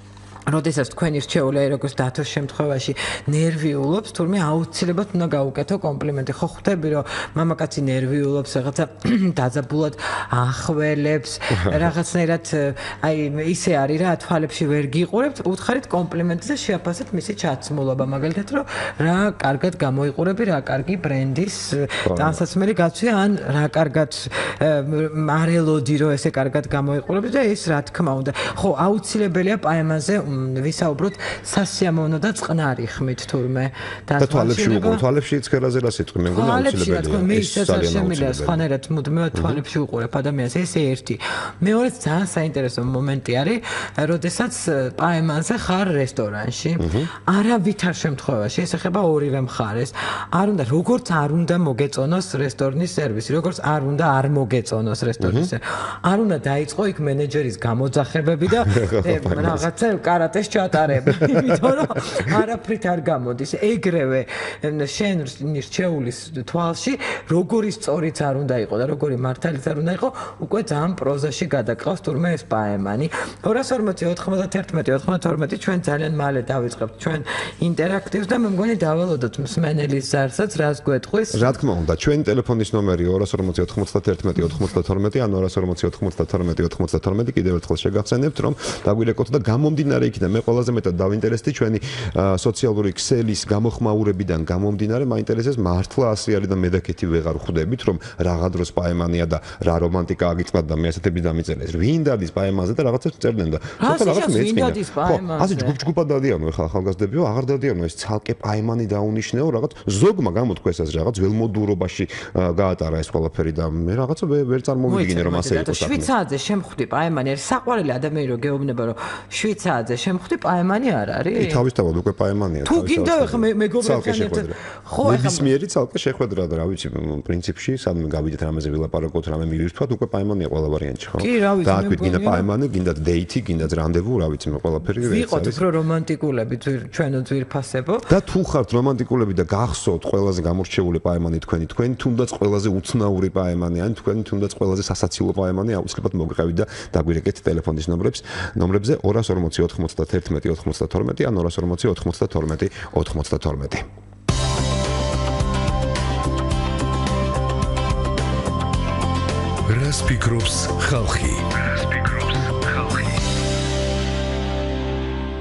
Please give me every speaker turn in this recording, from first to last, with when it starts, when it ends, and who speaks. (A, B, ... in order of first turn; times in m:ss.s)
0:00.5-0:35.0 A
0:11.5-0:11.9 B
0:22.0-0:22.4 B
0:34.2-0:38.6 B
0:36.3-1:21.6 A
0:39.3-0:39.6 B
0:46.8-0:47.1 B
0:55.2-0:55.5 B
0:58.6-0:59.6 B
1:01.1-1:01.7 B
1:21.3-1:56.1 B
1:43.8-1:45.8 A
1:54.9-2:01.7 A
2:01.4-2:15.6 B
2:02.6-2:05.5 A
2:11.2-2:12.5 A
2:15.0-2:18.1 A
2:18.1-2:33.9 B
2:39.7-2:43.2 C